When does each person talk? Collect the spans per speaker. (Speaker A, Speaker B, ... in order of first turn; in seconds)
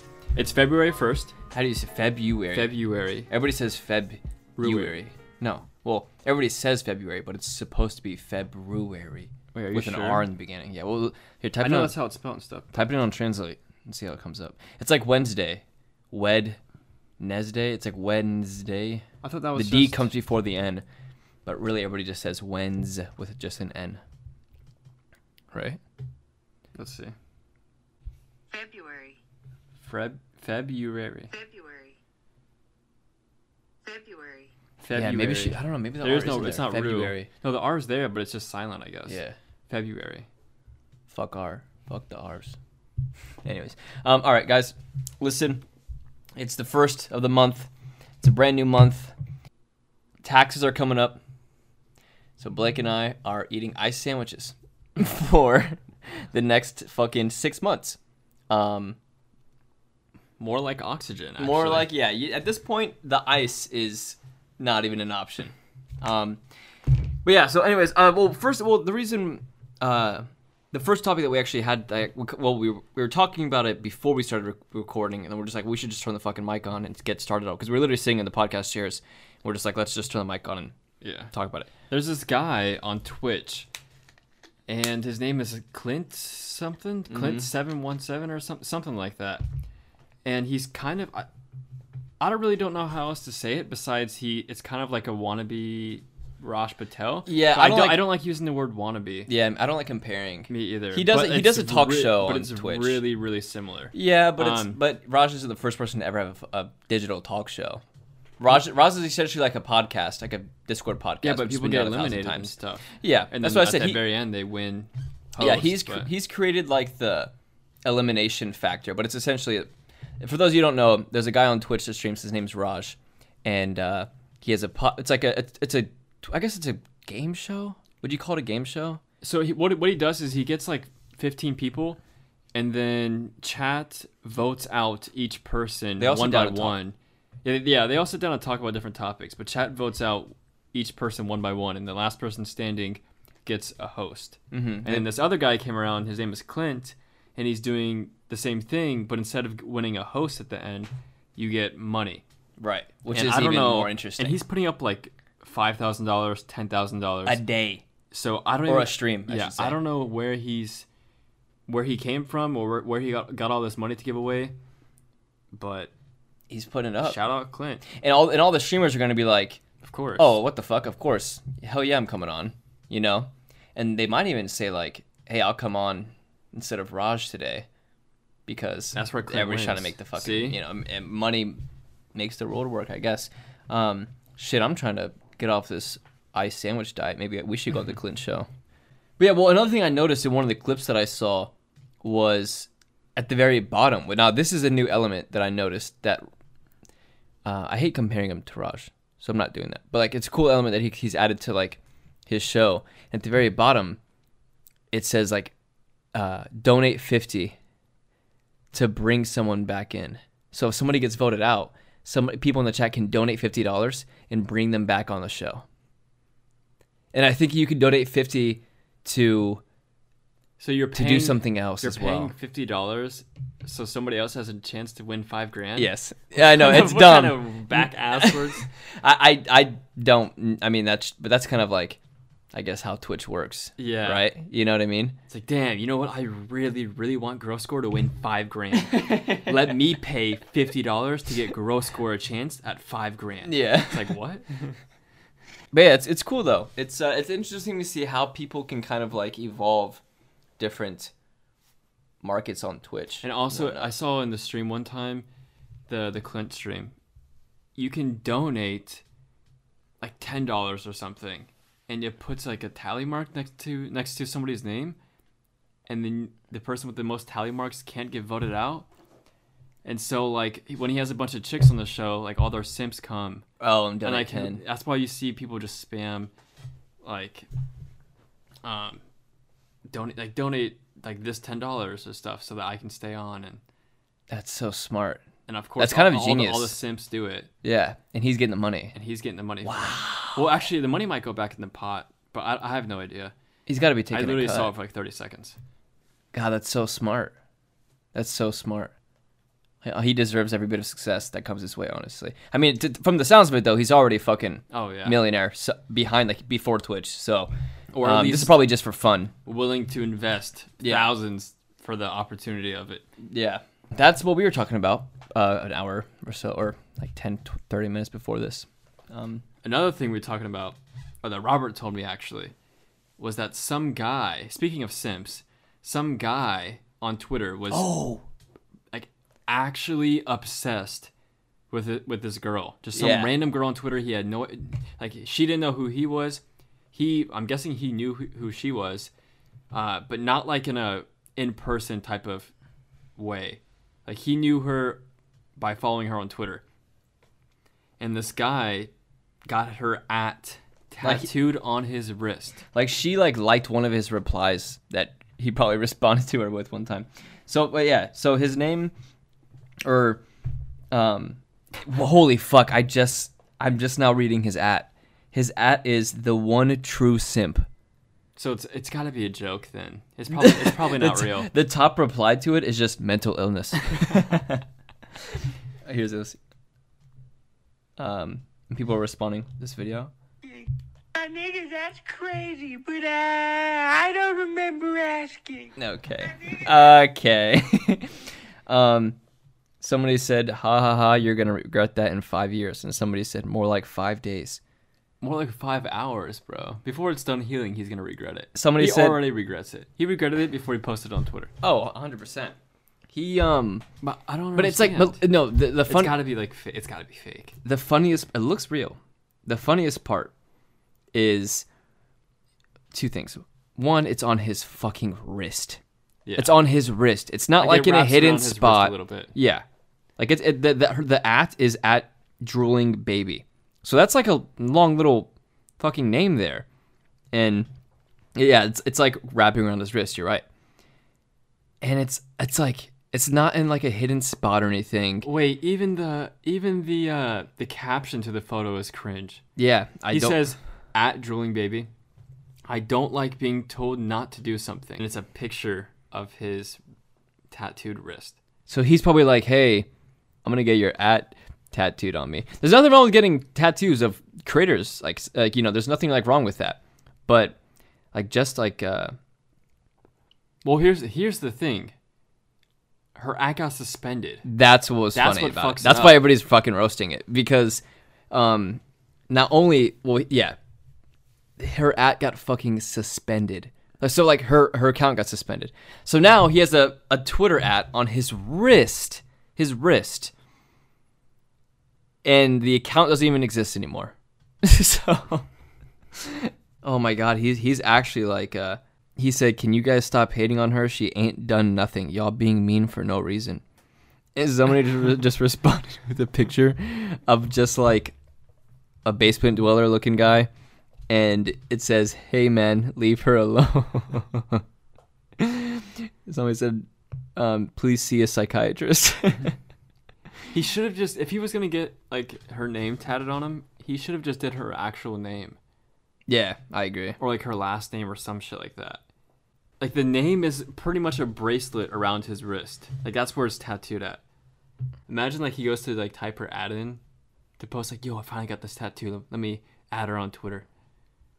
Speaker A: 0.3-1.3, 2.5-3.3, 4.6-5.0, 9.5-10.3, 11.6-12.8, 19.2-20.1, 26.7-27.1, 29.8-31.3, 34.8-40.3, 60.4-61.9, 81.0-81.3, 81.9-83.7, 84.7-89.4, 90.2-91.3, 92.2-99.3, 100.5-104.8, 111.2-116.1, 129.2-132.0, 132.5-152.2, 153.1-157.4, 158.1-160.9, 161.7-164.5, 165.5-165.9, 167.0-167.9, 169.8-170.4, 178.9-180.6, 220.6-228.7, 233.8-234.3, 235.3-244.8, 253.2-255.3, 255.9-256.9, 257.8-259.0, 260.0-265.0, 265.9-268.9, 269.8-273.4, 274.0-276.3, 277.0-277.5, 278.6-279.0, 279.9-283.6, 285.5-287.5, 288.9-293.3, 294.1-295.6, 304.7-305.2, 307.9-308.6, 309.4-313.0, 319.6-322.5, 323.2-327.9, 328.9-331.1, 331.7-336.4, 336.9-339.1, 339.7-342.5, 343.2-345.0, 345.6-346.6, 348.0-348.9, 349.4-352.6, 368.4-371.5, 395.2-401.5, 404.0-405.2, 405.8-407.6, 416.2-416.6, 417.6-419.3, 435.2-439.4, 440.1-441.9, 442.7-446.8, 447.5-448.4, 460.6-461.9, 463.1-464.4, 465.1-466.2, 510.5-515.6, 517.2-519.0, 519.8-524.2, 525.1-527.0, 527.6-530.6
Speaker B: 1.5-2.7, 3.3-12.0, 12.7-16.6, 17.2-20.8, 21.4-24.0, 25.5-25.8, 34.9-37.3, 39.1-39.4, 41.1-42.6, 43.4-45.6, 46.4-47.7, 48.2-49.1, 50.2-51.2, 52.4-58.0, 58.5-59.0, 61.4-66.4, 67.2-80.7, 81.3-81.7, 87.1-87.5, 97.2-98.1, 99.3-103.0, 103.9-107.8, 108.4-114.0, 115.4-117.3, 117.8-119.7, 120.2-129.0, 136.0-136.8, 144.5-145.1, 152.6-154.4, 157.2-157.8, 158.7-159.8, 166.5-167.2, 167.9-169.6, 170.2-177.7, 178.5-181.6, 182.1-188.5, 189.2-191.5, 192.0-196.2, 197.4-204.0, 204.9-205.5, 206.1-207.6, 208.7-215.6, 217.1-219.6, 220.9-222.3, 225.8-232.0, 232.5-235.2, 238.7-239.8, 243.4-244.1, 245.7-250.0, 250.6-251.1, 252.2-253.9, 273.6-274.6, 284.3-285.2, 285.8-286.8, 287.6-288.9, 289.6-290.4, 293.7-294.7, 296.3-297.3, 298.1-298.9, 299.8-307.5, 308.0-309.3, 310.8-311.1, 313.2-319.4, 327.7-328.2, 332.9-333.3, 351.0-351.3, 352.7-358.9, 359.8-360.2, 360.9-367.6, 370.3-374.6, 375.3-376.4, 378.0-380.1, 385.8-389.2, 389.8-394.6, 398.5-399.2, 401.6-402.5, 403.1-403.9, 404.6-406.2, 407.6-410.3, 411.1-411.7, 412.9-415.8, 416.4-419.6, 420.2-426.6, 427.3-427.7, 428.4-430.4, 431.8-435.3, 439.6-440.4, 448.7-449.9, 450.4-457.6, 458.1-459.1, 464.4-470.6, 471.6-480.3, 482.2-485.4, 486.1-493.6, 494.4-498.1, 499.0-500.5, 501.1-504.6, 505.4-509.6, 516.3-517.2
Speaker C: 28.5-29.2, 31.3-32.0, 33.8-34.5, 380.4-386.7